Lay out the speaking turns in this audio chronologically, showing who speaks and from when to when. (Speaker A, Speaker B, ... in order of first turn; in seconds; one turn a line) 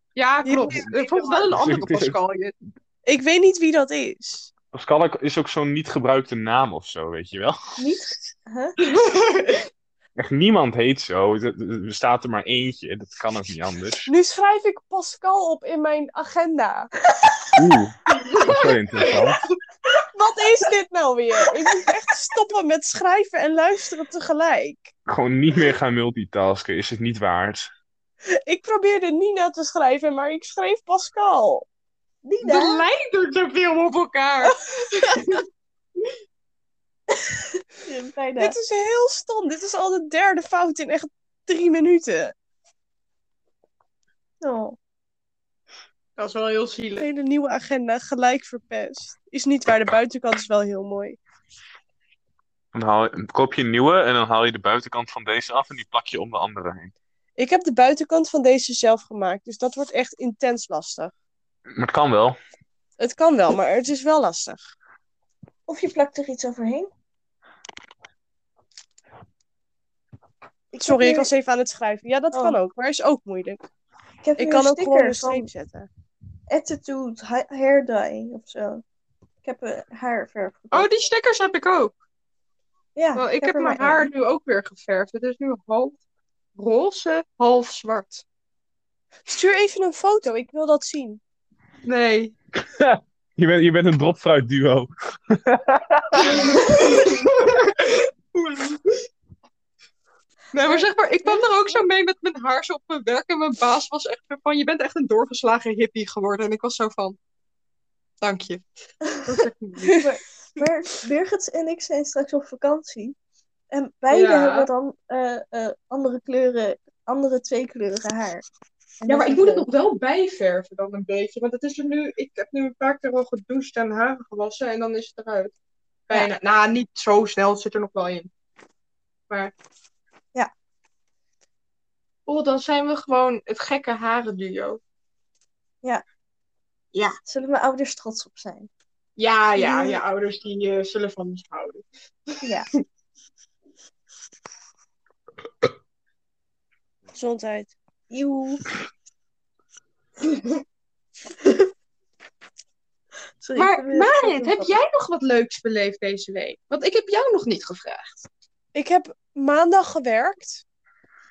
Speaker A: 0.2-2.5
Speaker B: 0.4-1.3
Speaker C: 1.5-2.2
Speaker B: 3.1-4.5
Speaker C: 4.7-7.8
Speaker D: 7.8-8.8
Speaker A: 8.8-9.7
Speaker C: 10.2-14.1
Speaker B: 14.1-16.9
Speaker C: 17.5-19.4
Speaker A: 18.2-19.5
Speaker B: 20.1-24.9
Speaker C: 25.1-27.7
Speaker B: 28.3-31.7
Speaker D: 32.2-32.9
Speaker A: 32.4-35.4
Speaker D: 37.1-38.6
Speaker B: 38.4-42.3
Speaker D: 44.4-44.8
Speaker A: 46.2-47.0
Speaker B: 47.0-51.2
Speaker C: 52.7-56.9
Speaker B: 57.4-61.1
Speaker C: 61.8-62.4
Speaker B: 63.0-64.6
Speaker D: 65.7-66.9
Speaker D: 70.7-71.3
Speaker B: 70.8-73.6
Speaker D: 72.3-72.6
Speaker D: 74.2-75.5
Speaker B: 74.4-75.9
Speaker D: 76.5-78.8
Speaker D: 79.4-80.9
Speaker A: 80.7-81.9
Speaker D: 83.0-84.1
Speaker A: 83.2-86.0
Speaker A: 86.6-88.2
Speaker B: 89.3-91.2
Speaker A: 91.8-92.3
Speaker C: 92.6-96.5
Speaker A: 96.3-99.0
Speaker A: 100.5-107.2
Speaker D: 100.6-101.8
Speaker A: 108.2-108.6
Speaker A: 109.2-110.1
Speaker D: 110.0-113.2
Speaker D: 113.7-118.5
Speaker A: 114.1-114.7
Speaker D: 119.0-119.7
Speaker A: 119.1-125.5
Speaker A: 126.1-128.3
Speaker A: 132.3-134.8
Speaker D: 137.2-138.7
Speaker A: 139.2-142.5
Speaker D: 139.6-140.0
Speaker D: 142.4-142.7
Speaker B: 147.1-147.7
Speaker D: 148.1-148.6
Speaker A: 150.2-150.6
Speaker D: 151.4-151.7
Speaker D: 153.4-154.7
Speaker A: 153.6-158.2
Speaker B: 158.7-160.6